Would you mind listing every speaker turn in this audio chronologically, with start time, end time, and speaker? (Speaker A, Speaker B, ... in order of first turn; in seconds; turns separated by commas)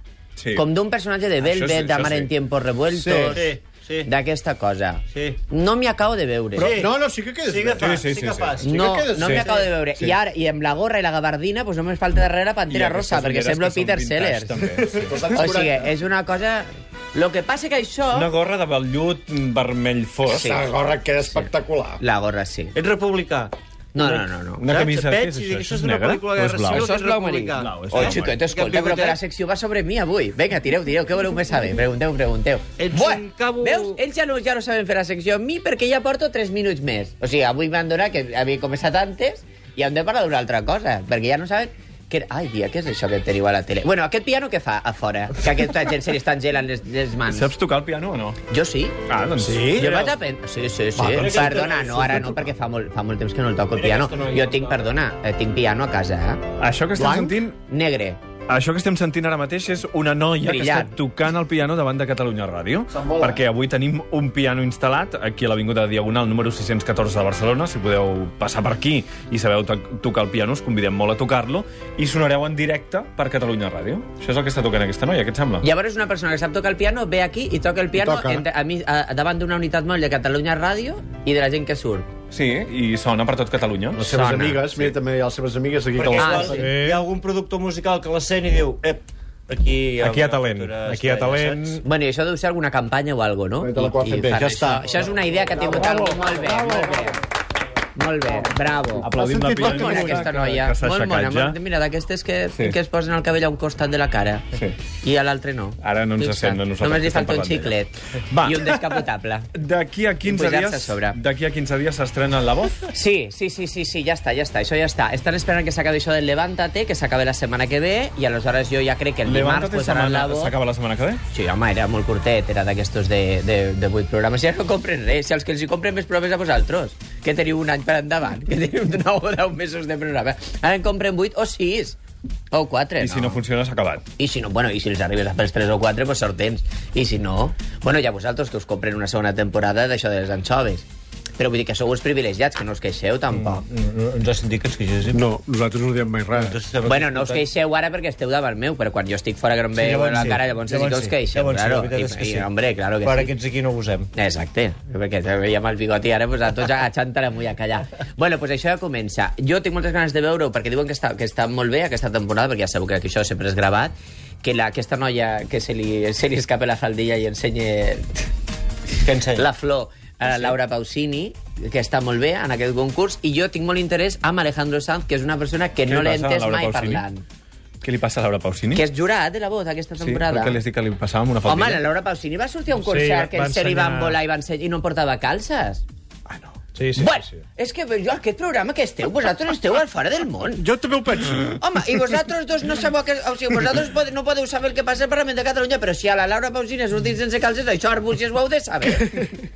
Speaker A: 0.4-0.6, Speaker B: 0.5-3.5, Speaker A: 1.4-2.3, Speaker C: 2.9-3.4, Speaker D: 3.3-4.1, Speaker B: 4.0-6.7, Speaker D: 5.1-5.4, Speaker D: 6.5-6.9, Speaker C: 6.6-8.0, Speaker D: 7.5-9.7, Speaker A: 7.8-8.5, Speaker C: 8.6-9.6, Speaker B: 8.6-14.6, Speaker A: 12.7-15.1, Speaker C: 14.9-15.9, Speaker B: 15.3-18.3, Speaker A: 18.1-20.6, Speaker B: 20.3-20.6, Speaker C: 20.4-22.0, Speaker B: 22.0-22.7, Speaker D: 22.7-29.2, Speaker B: 23.9-24.6, Speaker A: 24.6-26.9, Speaker B: 26.7-47.5, Speaker A: 27.6-28.3, Speaker D: 32.8-34.0, Speaker A: 47.3-48.4, Speaker B: 48.5-49.0, Speaker A: 49.1-50.1, Speaker C: 49.4-49.9, Speaker B: 49.7-56.4, Speaker C: 51.0-52.5, Speaker D: 51.1-52.3, Speaker D: 53.7-54.9, Speaker A: 56.6-57.5, Speaker C: 56.9-57.4, Speaker B: 57.7-58.2, Speaker A: 58.5-75.6, Speaker B: 60.4-60.9, Speaker C: 62.9-63.4, Speaker B: 75.6-82.1, Speaker C: 77.9-78.5, Speaker A: 82.3-84.0, Speaker C: 83.9-86.6, Speaker B: 84.0-84.7, Speaker D: 86.0-91.8, Speaker B: 86.2-86.6, Speaker E: 86.6-87.0, Speaker E: 90.0-91.8, Speaker B: 91.8-97.2, Speaker C: 93.6-97.0, Speaker B: 97.9-104.5, Speaker C: 99.0-100.3, Speaker A: 99.0-101.6, Speaker B: 105.0-109.5, Speaker A: 105.8-107.8, Speaker A: 108.3-108.7, Speaker A: 109.5-112.8, Speaker B: 110.2-111.2, Speaker B: 112.9-120.5, Speaker A: 119.2-121.2, Speaker B: 121.3-132.0, Speaker B: 132.5-133.4, Speaker A: 133.0-134.0, Speaker B: 134.2-140.8, Speaker B: 141.4-143.6, Speaker D: 143.3-145.2, Speaker C: 145.1-146.6, Speaker D: 146.3-147.4, Speaker B: 146.8-153.3, Speaker D: 149.7-152.5, Speaker D: 153.0-154.1, Speaker B: 154.2-168.2, Speaker D: 169.0-169.4, Speaker B: 169.3-177.2, Speaker A: 175.9-177.0, Speaker A: 177.8-178.8, Speaker B: 178.7-180.6, Speaker A: 180.0-181.8, Speaker B: 181.4-185.8, Speaker E: 182.7-184.2, Speaker A: 186.3-186.7, Speaker E: 186.7-187.2, Speaker B: 186.9-190.7, Speaker C: 190.6-191.6, Speaker B: 191.6-199.3